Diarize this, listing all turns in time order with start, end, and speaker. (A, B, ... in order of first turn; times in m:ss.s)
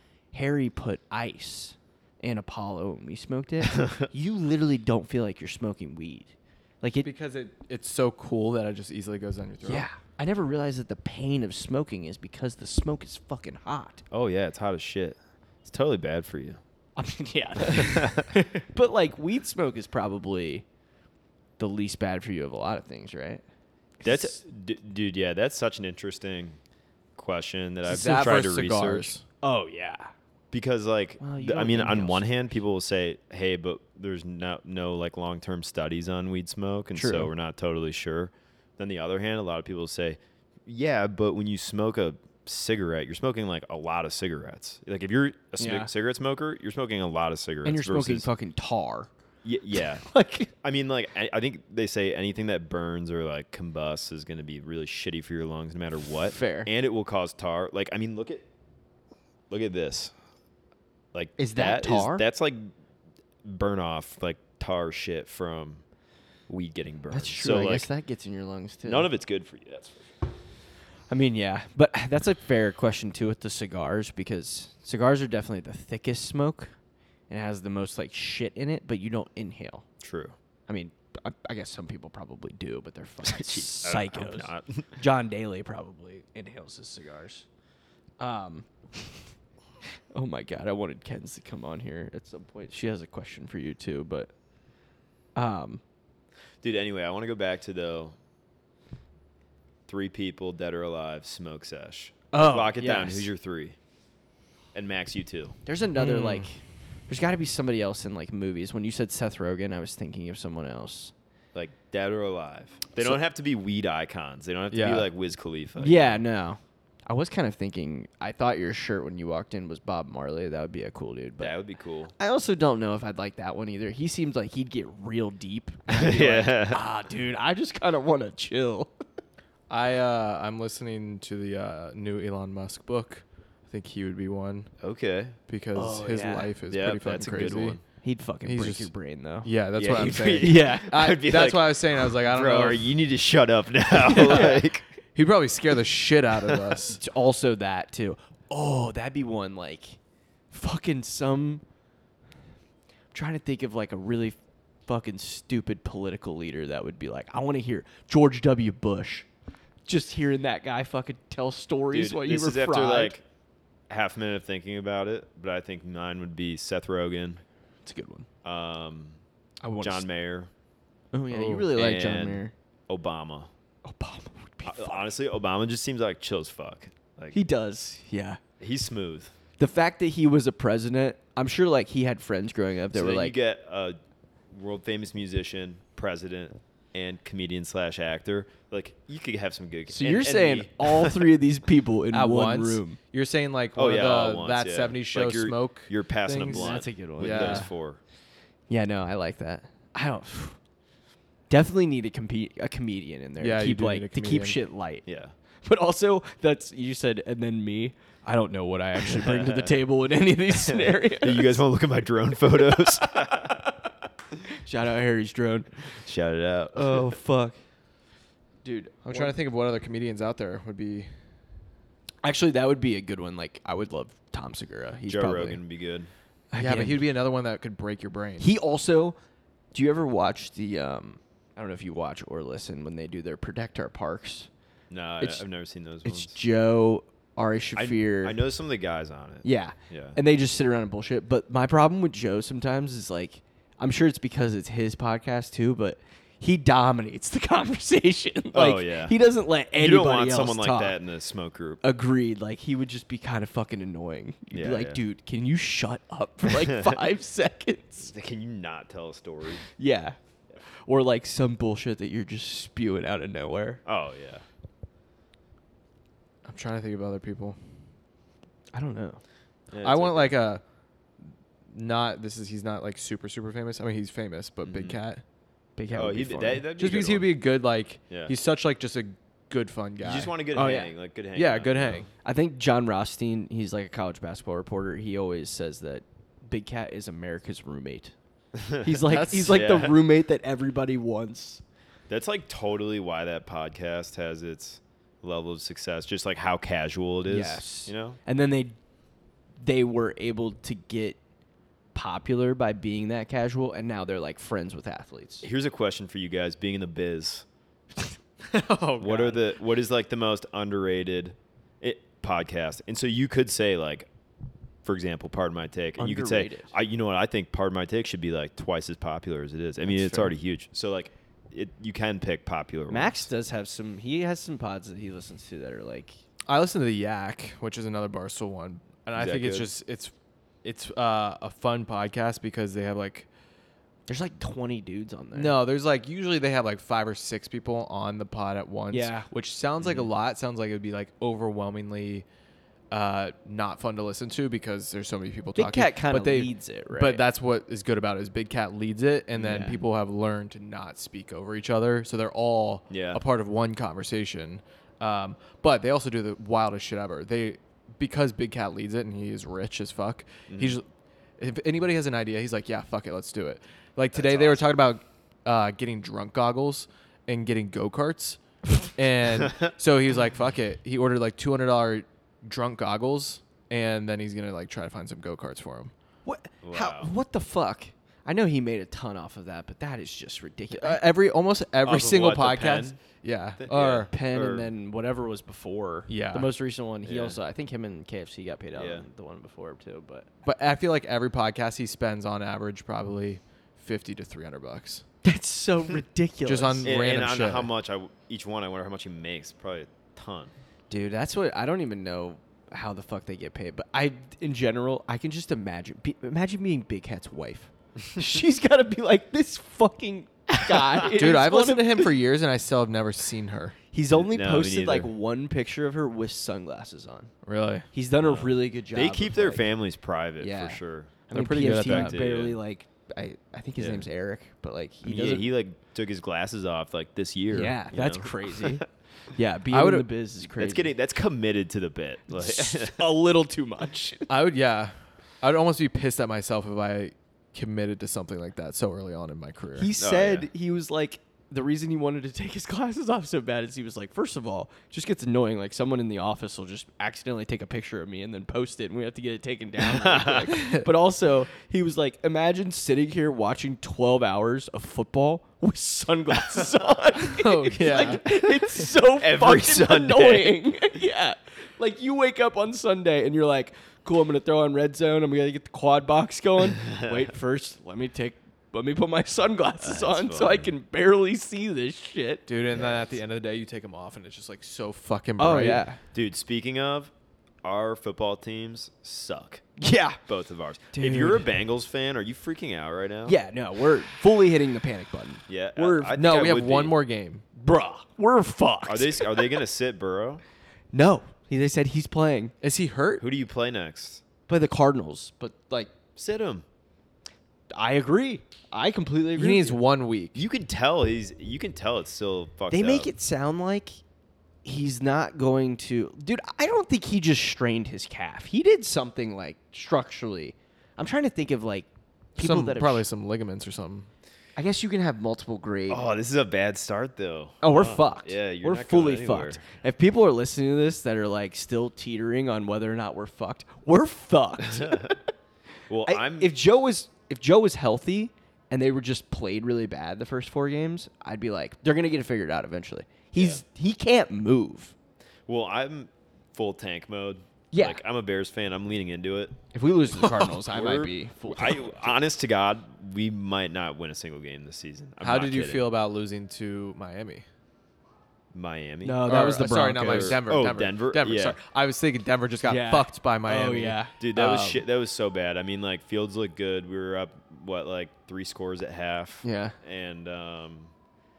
0:00.3-0:07.1 A
0:07.0-0:09.9 B
0:09.6-0:14.0 A
0:14.1-0:16.6 C
0:17.0-0:20.6 A
0:17.7-0:18.3 C
0:21.6-0:23.4 A
0:24.0-0:24.4 A
0:24.0-0:26.6 C
0:27.2-0:29.1 C
0:27.8-0:29.2 B
0:29.4-0:30.1 A
0:30.5-0:48.3 C
0:31.2-0:32.3 A
0:37.0-0:37.3 A
0:45.6-0:45.9 A
0:47.6-0:49.1 A
0:49.4-0:50.1 C
0:50.0-0:50.5 A
0:50.6-0:58.4 C
0:56.2-0:56.7 A
0:59.5-1:00.1 C
1:01.1-1:02.7 C
1:01.4-1:02.2 A
1:03.4-1:05.8 C
1:06.5-1:07.9 C
1:07.1-1:09.1 A
1:08.8-1:10.3 C
1:11.1-1:16.7 A
1:17.3-1:19.8 A
1:20.0-1:20.4 C
1:20.7-1:27.5 A
1:23.2-1:24.9 C
1:28.2-1:29.2 A
1:30.1-1:34.3 A
1:35.4-1:35.8 A
1:36.6-1:38.2 C
1:39.9-1:43.8 C
1:42.3-1:43.3 A
1:44.7-1:45.6 C
1:45.7-1:51.1 A
1:46.0-1:46.5 B
1:51.5-1:56.2 C
1:54.7-1:55.1 B
1:55.8-2:01.6 A
2:01.4-2:02.1 C
2:02.2-2:08.9 A
2:05.9-2:06.8 C
2:09.7-2:14.7 B
2:14.8-2:15.4 C
2:15.5-2:17.8 B
2:15.8-2:16.5 A
2:16.7-2:17.8 C
2:18.0-2:19.5 A
2:18.4-2:18.9 B
2:19.4-2:22.9 B
2:19.8-2:24.8 C
2:20.4-2:21.0 A
2:24.1-2:24.6 A
2:24.1-2:24.6 B
2:25.2-2:27.0 B
2:26.5-2:26.7 C
2:26.9-2:30.0 A
2:30.5-2:31.6 A
2:33.1-2:39.3 A
2:39.9-2:43.2 A
2:41.9-2:43.2 C
2:43.9-2:47.4 C
2:47.8-2:48.3 A
2:48.4-2:49.2 C
2:49.6-2:50.1 A
2:49.8-2:50.5 C
2:51.1-2:52.5 A
2:51.3-2:51.7 B
2:51.7-2:53.5 C
2:53.8-2:55.1 A
2:54.7-2:57.4 C
2:57.3-2:58.4 A
2:58.6-2:59.3 C
2:59.6-3:03.4 A
3:02.9-3:04.0 C
3:04.5-3:11.3 C
3:09.9-3:13.0 A
3:12.1-3:17.7 B
3:13.8-3:18.0 C
3:16.5-3:17.7 A
3:18.7-3:20.6 A
3:21.5-3:25.1 A
3:23.4-3:24.6 B
3:25.1-3:25.3 C
3:25.6-3:31.6 A
3:29.1-3:29.8 C
3:30.7-3:33.6 C
3:33.0-3:33.8 A
3:34.5-3:35.8 A
3:36.0-3:37.1 C
3:36.8-3:37.6 A
3:38.6-3:39.3 A
3:39.0-3:41.1 B
3:42.2-3:45.6 A
3:45.1-3:46.1 C
3:46.5-3:47.1 A
3:46.6-3:48.5 B
3:48.4-3:49.2 A
3:49.7-3:54.5 A
3:54.9-3:56.4 C
3:56.0-3:58.4 A
3:57.8-4:00.2 C
3:59.4-4:11.0 A
4:08.5-4:09.2 C
4:09.7-4:11.8 C
4:11.8-4:18.1 A
4:14.5-4:15.0 C
4:16.5-4:17.0 C
4:18.1-4:19.7 C
4:19.8-4:20.2 A
4:20.9-4:23.8 A
4:23.8-4:24.4 C
4:26.4-4:27.7 B
4:28.7-4:29.2 A
4:29.7-4:30.4 C
4:29.8-4:30.6 B
4:31.7-4:35.2 B
4:34.6-4:35.0 C
4:35.8-4:36.7 A
4:35.9-4:37.4 C
4:36.8-4:40.3 B
4:38.1-4:38.4 C
4:40.0-4:42.1 C
4:40.5-4:40.9 A
4:41.4-4:42.1 B
4:42.1-4:48.1 A
4:48.6-4:50.0 C
4:48.8-4:51.6 A
4:49.1-4:49.5 B
4:52.1-4:58.2 C
4:57.3-4:58.8 A
4:59.6-5:01.2 A
5:01.9-5:05.5 A
5:05.4-5:07.4 C
5:08.5-5:09.4 B
5:09.0-5:14.1 C
5:14.8-5:23.3 C
5:16.0-5:16.7 A
5:19.9-5:20.3 A
5:22.9-5:26.2 A
5:26.5-5:30.1 B
5:29.2-5:29.7 C
5:30.6-5:33.3 B
5:34.1-5:35.6 A
5:35.3-5:42.3 B
5:38.9-5:39.3 A
5:39.8-5:40.1 C
5:42.9-6:00.9 B
5:45.6-5:47.2 A
5:49.4-5:49.8 A
5:49.5-5:49.8 C
5:52.9-5:53.2 C
6:00.5-6:00.8 C
6:01.4-6:15.9 B
6:04.1-6:04.6 C
6:09.4-6:09.7 C
6:16.2-6:21.0 A
6:16.6-6:17.1 C
6:20.8-6:24.1 B
6:21.8-6:23.0 C
6:23.6-6:24.7 C
6:24.1-6:30.3 A
6:26.1-6:26.5 B
6:27.0-6:27.4 C
6:28.8-6:29.0 C
6:30.4-6:35.0 B
6:35.2-6:36.9 A
6:36.5-6:37.7 B
6:36.8-6:40.5 C
6:40.9-6:52.0 A
6:51.1-6:53.8 B
6:53.9-6:57.3 A
6:54.1-6:55.1 C
6:57.4-6:57.9 B
6:57.9-6:59.7 A
6:58.2-7:02.6 C
7:00.4-7:05.5 A
7:01.3-7:02.2 B
7:03.8-7:04.1 C
7:05.0-7:08.8 C
7:07.5-7:10.9 A
7:09.7-7:10.1 B
7:10.6-7:13.1 C
7:12.3-7:14.3 A
7:14.3-7:19.9 B
7:19.8-7:52.5 A
7:20.0-7:20.5 C
7:29.8-7:30.6 C
7:30.5-7:30.9 B
7:37.2-7:38.2 B
7:38.1-7:40.6 C
7:46.8-7:47.2 C
7:49.8-7:50.7 C
7:52.5-7:55.8 B
7:52.7-7:53.0 C
7:55.4-7:56.0 A
7:56.1-7:57.1 C
7:57.6-7:59.7 C
7:59.8-8:00.2 A
8:00.3-8:03.4 C
8:00.9-8:01.5 A
8:03.3-8:06.2 A
8:05.5-8:07.0 C
8:06.2-8:07.4 B
8:07.6-8:09.6 A
8:08.9-8:10.4 C
8:10.9-8:12.5 A
8:12.6-8:13.2 B
8:13.2-8:14.2 C
8:14.5-8:15.9 A
8:16.2-8:16.6 C
8:17.7-8:19.8 A
8:19.4-8:20.4 B
8:20.4-8:23.1 C
8:22.7-8:24.0 A
8:24.6-8:33.0 A
8:32.4-8:34.1 B
8:34.6-8:36.0 A
8:35.9-8:39.6 C
8:37.6-8:45.2 A
8:44.7-8:45.2 C
8:45.9-8:46.5 C
8:46.0-8:54.9 A
8:53.4-8:53.6 C
8:55.5-8:59.7 C
8:57.7-8:58.0 A
8:59.7-9:02.1 A
9:00.2-9:05.9 C
9:05.2-9:07.4 B
9:08.5-9:11.6 C
9:09.0-9:10.4 A
9:09.2-9:14.8 B
9:12.6-9:14.1 A
9:14.2-9:20.9 C
9:19.4-9:19.8 A